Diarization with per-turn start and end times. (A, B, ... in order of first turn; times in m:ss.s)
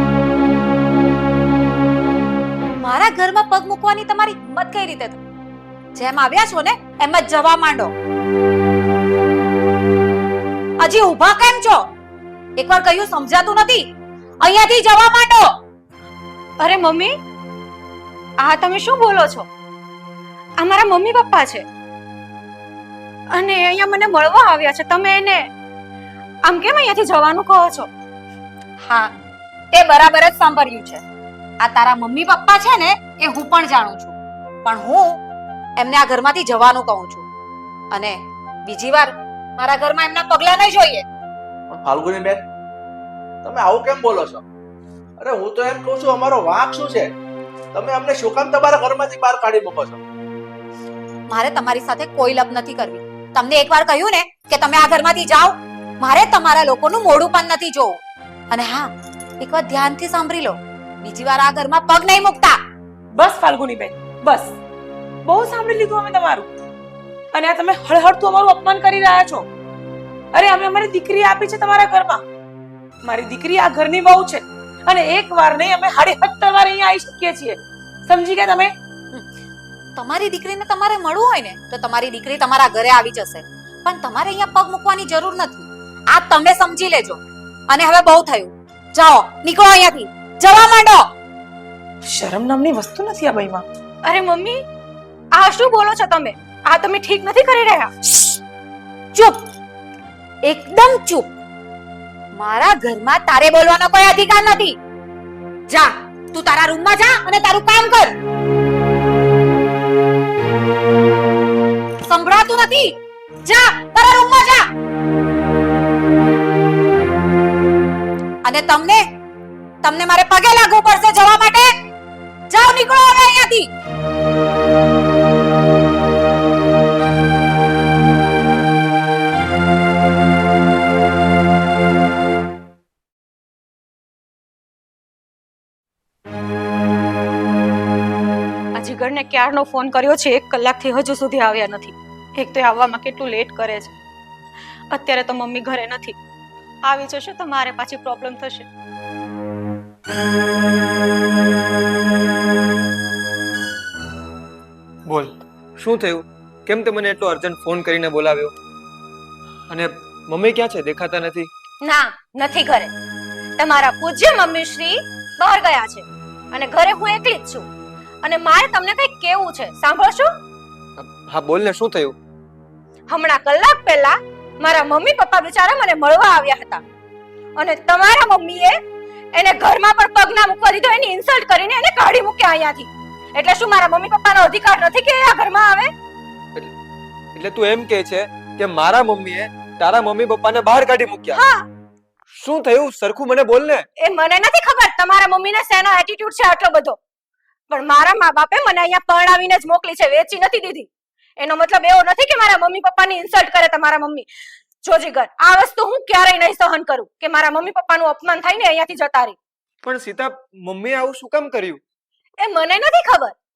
0:02.8-0:05.2 A
0:05.9-0:07.9 A
0:10.8-0:11.9 A
0:12.6-0:13.9 A
0:14.4-0:15.5 A
0:16.6-0:17.1 B
0:18.4-0:19.5 B
0:20.6-0:21.6 B
0:23.3-0:25.5 B
0:26.4-0:27.9 B
0:28.8-0:29.1 A
0:29.7-0:31.0 B
0:31.6-0:35.2 A
0:35.8-0:37.2 A
0:37.9-0:41.0 A
0:41.7-0:42.4 C
0:43.4-0:44.4 C
0:45.2-0:47.1 C
0:47.7-0:50.0 C
0:51.3-0:58.0 A
0:58.5-1:02.6 A
1:03.1-1:04.6 D
1:05.2-1:06.5 D
1:07.3-1:09.5 D
1:10.3-1:12.2 D
1:13.0-1:18.7 D
1:20.0-1:31.1 A
1:32.1-1:33.6 D
1:34.0-1:34.6 B
1:35.3-1:37.9 B
1:39.1-1:39.4 A
1:40.4-1:41.3 A
1:42.3-1:44.8 A
1:45.7-1:48.2 A
1:52.1-1:54.7 A
1:58.4-1:59.0 A
1:59.8-2:01.7 A
2:02.5-2:03.7 A
2:18.8-2:23.9 B
2:24.9-2:26.2 B
2:26.8-2:28.7 B
2:35.1-2:38.5 E
2:39.7-2:41.5 E
2:41.8-2:42.9 B
2:43.6-2:47.7 B
2:48.2-2:50.3 B
2:51.0-2:52.2 E
2:53.1-2:56.8 B
2:57.6-2:58.8 B
2:59.3-3:05.9 B
3:07.3-3:11.4 E
3:11.3-3:11.7 B
3:12.4-3:13.8 E
3:14.0-3:17.0 B
3:17.7-3:24.3 B
3:24.8-3:29.4 B
3:29.8-3:31.8 E
3:32.4-3:33.3 B